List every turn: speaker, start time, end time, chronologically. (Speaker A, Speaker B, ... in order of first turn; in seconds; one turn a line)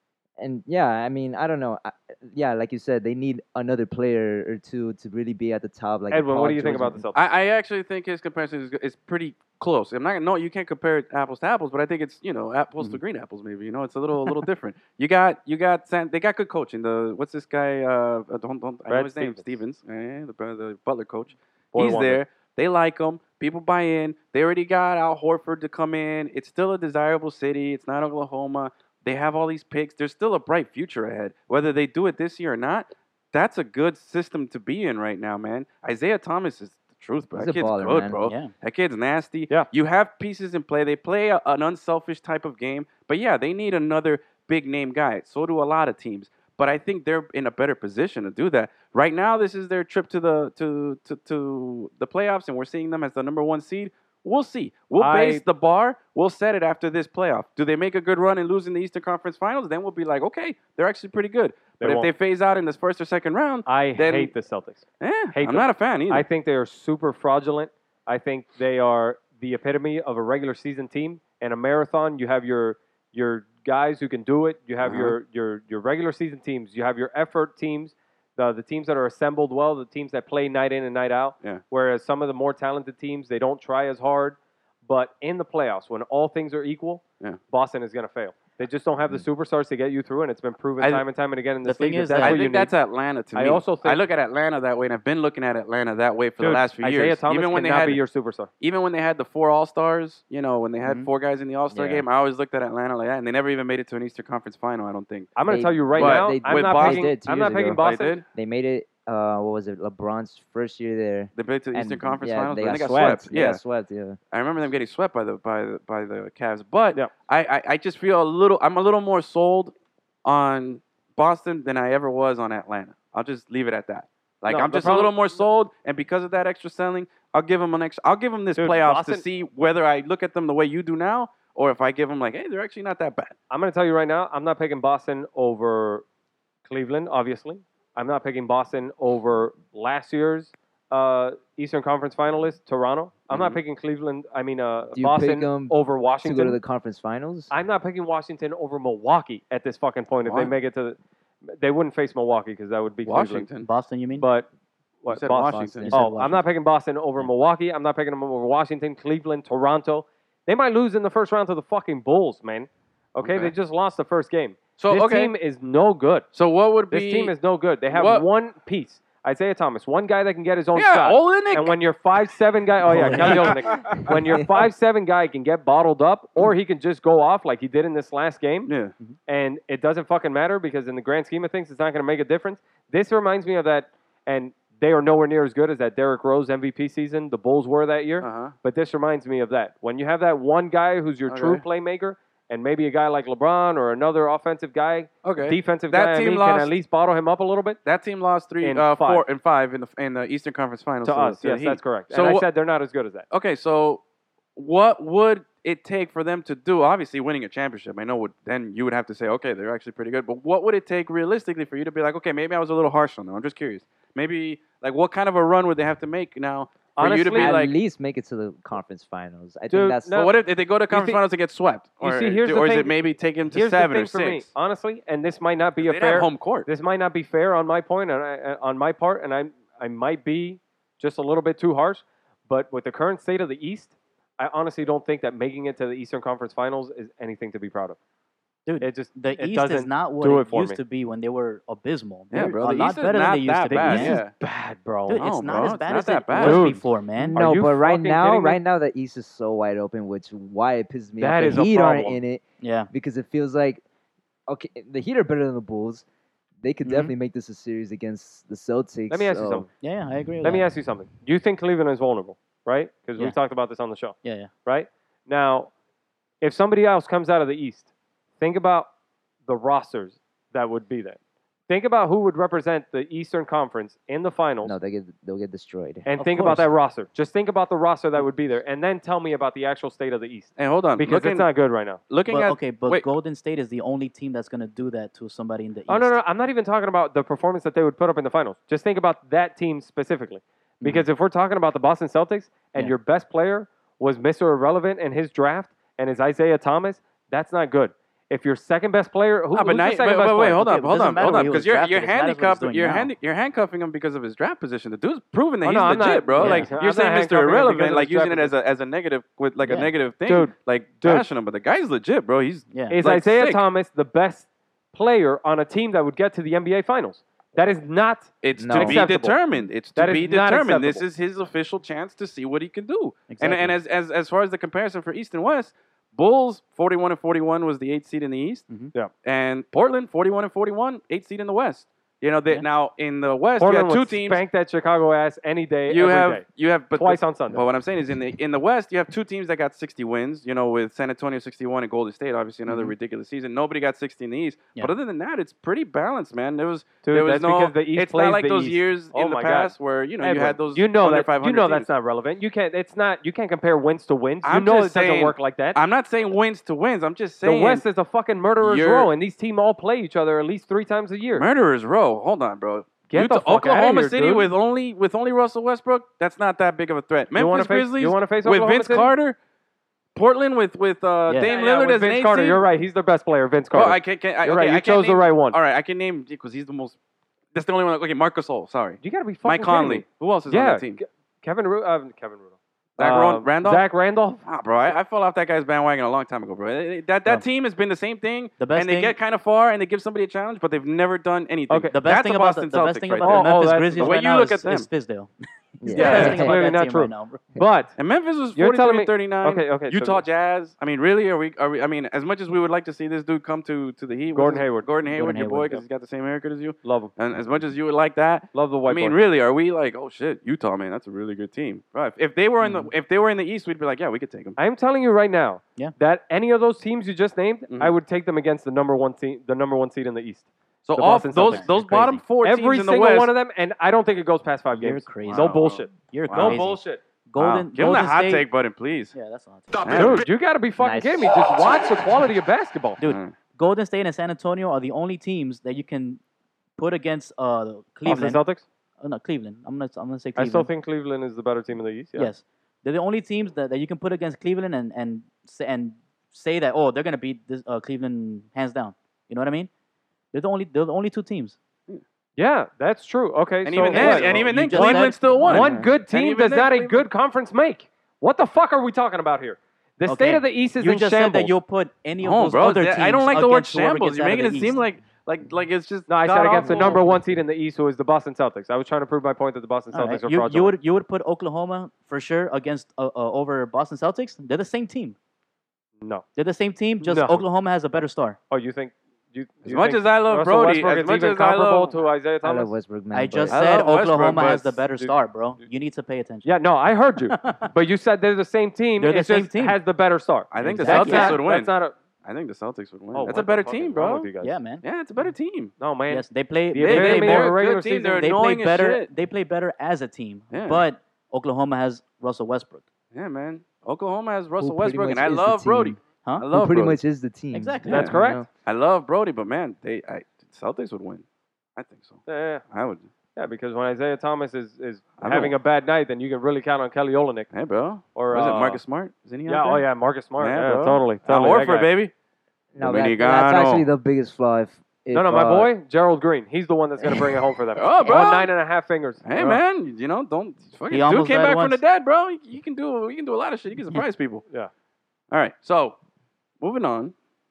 Speaker A: 0.4-7.0
Speaker B: 6.1-7.2
Speaker C: 7.1-64.3
Speaker B: 18.9-19.6
Speaker B: 21.7-22.2
Speaker A: 37.4-38.3
Speaker D: 38.2-38.5
Speaker B: 55.0-55.4
Speaker B: 61.8-62.1
Speaker B: 63.6-92.7
Speaker C: 65.0-66.2
Speaker C: 74.8-75.2
Speaker D: 91.6-92.4
Speaker C: 92.2-98.0
Speaker B: 93.3-94.0
Speaker B: 96.4-98.5
Speaker C: 98.6-105.3
Speaker D: 100.8-101.1
Speaker A: 101.7-102.0
Speaker B: 105.3-108.2
Speaker A: 105.4-107.8
Speaker C: 106.0-107.1
Speaker C: 107.8-108.2
Speaker A: 108.3-114.2
Speaker C: 111.3-113.6
Speaker C: 114.3-119.7
Speaker C: 120.2-133.3
Speaker B: 124.5-125.2
Speaker B: 128.6-129.2
Speaker B: 133.5-136.0
Speaker B: 136.7-146.6
Speaker C: 143.3-143.6
Speaker A: 144.9-147.5
Speaker B: 147.5-153.5
Speaker C: 150.2-150.5
Speaker C: 153.0-153.7
Speaker D: 153.6-154.3
Speaker B: 154.2-154.5
Speaker B: 155.0-166.3
Speaker C: 155.1-155.9
Speaker D: 155.5-156.4
Speaker A: 155.6-156.4
Speaker C: 163.2-163.5
Speaker C: 164.8-165.3
Speaker C: 166.3-167.3
Speaker B: 166.9-178.7
Speaker C: 167.9-168.2
Speaker C: 170.7-171.8
Speaker A: 172.9-174.4
Speaker C: 173.1-174.0
Speaker C: 178.7-178.9
Speaker B: 179.3-197.8
Speaker C: 188.2-188.5
Speaker C: 191.3-191.6
Speaker C: 195.2-196.7
Speaker C: 197.8-202.5
Speaker B: 198.6-199.2
Speaker B: 201.0-203.2
Speaker C: 203.3-204.0
Speaker C: 204.6-217.7
Speaker B: 216.9-217.5
Speaker A: 217.3-220.1
Speaker B: 219.7-220.3
Speaker C: 220.1-224.5
Speaker B: 220.9-221.2
Speaker B: 222.0-222.9
Speaker B: 223.5-238.0
Speaker C: 225.8-226.7
Speaker D: 238.7-244.2
Speaker B: 238.8-240.8
Speaker C: 242.3-244.3
Speaker B: 243.7-245.2
Speaker D: 245.1-247.4
Speaker C: 245.2-246.8
Speaker B: 246.4-246.8
Speaker A: 247.2-253.8
Speaker B: 247.3-248.6
Speaker B: 251.2-252.2
Speaker D: 252.6-252.9
Speaker A: 254.5-256.0
Speaker A: 256.6-259.6
Speaker D: 256.8-257.1
Speaker B: 259.1-259.7
Speaker D: 259.8-260.7
Speaker B: 260.4-265.7
Speaker D: 264.2-264.5
Speaker B: 266.4-267.9
Speaker B: 268.4-268.9
Speaker B: 269.4-274.7
Speaker A: 274.6-276.1
Speaker B: 276.1-282.0
Speaker D: 276.2-276.7
Speaker C: 280.6-281.5
Speaker C: 282.1-283.1
Speaker D: 282.3-286.2
Speaker B: 285.9-300.6
Speaker D: 290.8-291.1
Speaker C: 299.5-313.6
Speaker D: 300.6-303.1
Speaker B: 305.6-308.5
Speaker D: 306.4-306.7
Speaker D: 309.6-309.9
Speaker B: 310.2-311.2
Speaker D: 312.7-312.9
Speaker B: 312.9-319.4
Speaker C: 318.4-328.7
Speaker A: 318.6-319.0
Speaker B: 319.9-321.0
Speaker D: 323.3-323.8
Speaker C: 329.2-334.4
Speaker B: 333.6-337.6
Speaker C: 335.9-351.9
Speaker D: 342.7-342.9
Speaker B: 347.0-355.8
Speaker C: 354.4-357.9
Speaker B: 357.4-361.5
Speaker C: 358.6-359.1
Speaker C: 361.3-369.4
Speaker B: 363.1-364.5
Speaker B: 367.3-369.1
Speaker C: 370.1-372.6
Speaker D: 371.3-371.5
Speaker B: 371.4-375.6
Speaker C: 373.7-376.9
Speaker C: 377.5-381.0
Speaker B: 379.0-384.4
Speaker C: 383.0-383.9
Speaker C: 384.4-394.9
Speaker D: 388.6-389.2
Speaker D: 391.9-397.4
Speaker B: 393.2-394.2
Speaker A: 395.8-396.6
Speaker C: 395.9-396.4
Speaker B: 396.0-398.0
Speaker C: 398.0-414.6
Speaker B: 398.6-400.2
Speaker B: 404.3-404.9
Speaker D: 405.0-405.8
Speaker B: 406.8-407.1
Speaker B: 408.5-409.2
Speaker D: 412.6-412.9
Speaker B: 414.6-427.0
Speaker C: 417.7-417.9
Speaker C: 420.8-423.3
Speaker D: 421.4-422.2
Speaker D: 424.7-428.5
Speaker C: 425.2-426.6
Speaker C: 427.4-429.1
Speaker D: 429.1-430.2
Speaker C: 429.8-430.2
Speaker B: 429.9-433.0
Speaker A: 430.8-431.3
Speaker D: 433.0-436.2
Speaker C: 433.0-433.3
Speaker D: 436.8-438.4
Speaker B: 438.0-438.6
Speaker D: 439.0-440.7
Speaker B: 440.4-442.3
Speaker D: 442.1-449.7
Speaker D: 450.3-451.6
Speaker B: 452.4-461.5
Speaker C: 453.6-457.1
Speaker D: 453.8-455.9
Speaker D: 460.1-464.8
Speaker C: 462.2-467.1
Speaker B: 466.1-470.7
Speaker D: 466.5-467.2
Speaker D: 469.9-475.1
Speaker D: 476.4-478.4
Speaker B: 477.0-477.4
Speaker B: 478.5-482.7
Speaker C: 479.6-481.9
Speaker A: 482.4-483.7
Speaker D: 483.1-486.5
Speaker C: 483.5-484.8
Speaker B: 486.4-491.9
Speaker D: 487.3-487.7
Speaker D: 489.0-489.8
Speaker C: 490.5-491.7
Speaker D: 490.6-491.4
Speaker C: 492.2-494.3
Speaker B: 493.1-494.6
Speaker D: 494.4-494.8
Speaker C: 494.8-495.7
Speaker B: 495.8-498.2
Speaker D: 496.1-497.6
Speaker C: 496.8-499.1
Speaker D: 498.2-502.8
Speaker C: 500.5-500.8
Speaker C: 503.1-507.0
Speaker A: 504.6-506.0
Speaker A: 506.5-508.5
Speaker D: 507.5-508.1
Speaker C: 507.9-511.2
Speaker B: 507.9-508.4
Speaker C: 511.8-513.1
Speaker B: 512.3-512.6
Speaker B: 513.4-517.5
Speaker C: 515.2-515.5
Speaker C: 517.5-519.9
Speaker B: 518.1-518.8
Speaker B: 519.5-521.9
Speaker C: 520.4-522.1
Speaker A: 522.7-525.7
Speaker C: 522.8-523.9
Speaker B: 525.1-529.6
Speaker C: 527.8-528.5
Speaker C: 529.2-534.4
Speaker D: 530.9-531.8
Speaker C: 535.3-536.0
Speaker C: 536.6-537.1